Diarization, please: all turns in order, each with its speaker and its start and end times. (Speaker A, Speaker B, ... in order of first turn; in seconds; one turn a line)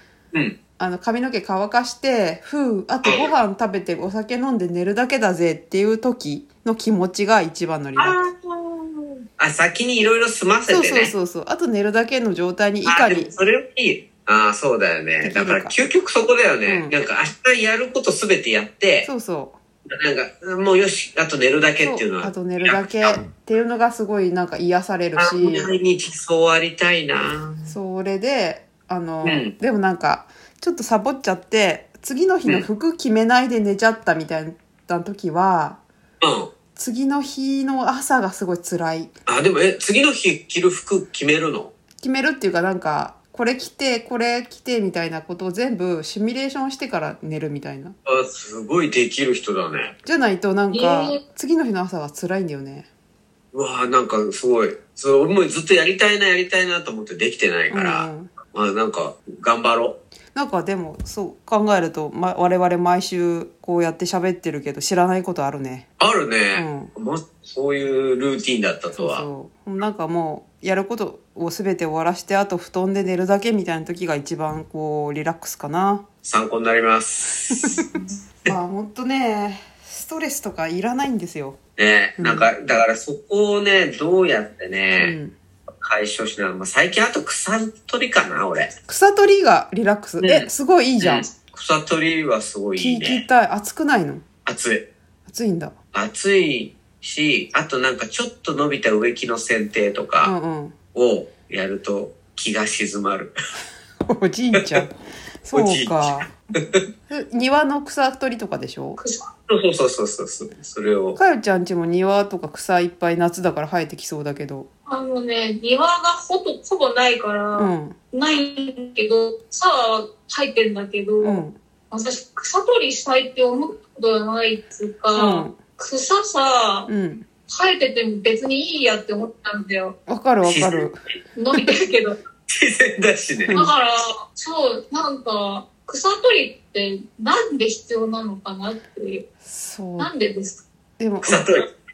Speaker A: 0.3-0.6
Speaker B: 0.8-8.2
Speaker A: 3.0-3.3
Speaker A: 8.0-11.1
Speaker B: 10.7-13.4
Speaker A: 12.8-19.1
Speaker B: 15.2-15.8
Speaker B: 16.6-16.9
Speaker B: 19.0-19.6
Speaker A: 19.9-23.2
Speaker B: 21.8-25.7
Speaker A: 25.1-27.8
Speaker B: 27.6-35.8
Speaker A: 29.2-29.5
Speaker A: 36.2-36.5
Speaker B: 36.8-39.1
Speaker A: 39.3-41.7
Speaker B: 42.0-47.9
Speaker A: 48.1-49.9
Speaker B: 50.0-52.9
Speaker C: 50.7-51.2
Speaker A: 53.5-60.0
Speaker B: 57.7-58.3
Speaker B: 60.3-65.8
Speaker A: 66.0-69.3
Speaker B: 66.5-66.9
Speaker B: 69.0-76.0
Speaker A: 76.2-77.8
Speaker B: 78.4-81.6
Speaker A: 81.8-85.2
Speaker B: 82.2-82.5
Speaker B: 85.0-85.3
Speaker A: 85.8-88.7
Speaker B: 88.9-91.3
Speaker A: 90.2-90.5
Speaker A: 91.0-93.2
Speaker B: 92.8-94.2
Speaker A: 94.5-94.9
Speaker B: 95.2-95.7
Speaker A: 95.9-100.3
Speaker B: 100.2-100.8
Speaker A: 100.9-103.3
Speaker B: 104.0-104.9
Speaker A: 104.6-104.8
Speaker B: 105.4-106.3
Speaker A: 105.5-106.8
Speaker B: 107.1-109.0
Speaker C: 109.0-109.3
Speaker A: 109.5-111.2
Speaker B: 111.1-114.7
Speaker C: 114.9-126.9
Speaker B: 117.6-118.0
Speaker B: 121.2-121.6
Speaker B: 125.1-125.6
Speaker B: 126.9-127.2
Speaker C: 127.5-129.9
Speaker B: 130.1-131.0
Speaker A: 130.4-130.9
Speaker C: 131.4-132.2
Speaker A: 132.5-133.6
Speaker B: 133.4-133.7
Speaker C: 133.5-139.2
Speaker B: 139.4-140.1
Speaker C: 140.0-140.6
Speaker B: 141.0-141.4
Speaker A: 141.2-141.6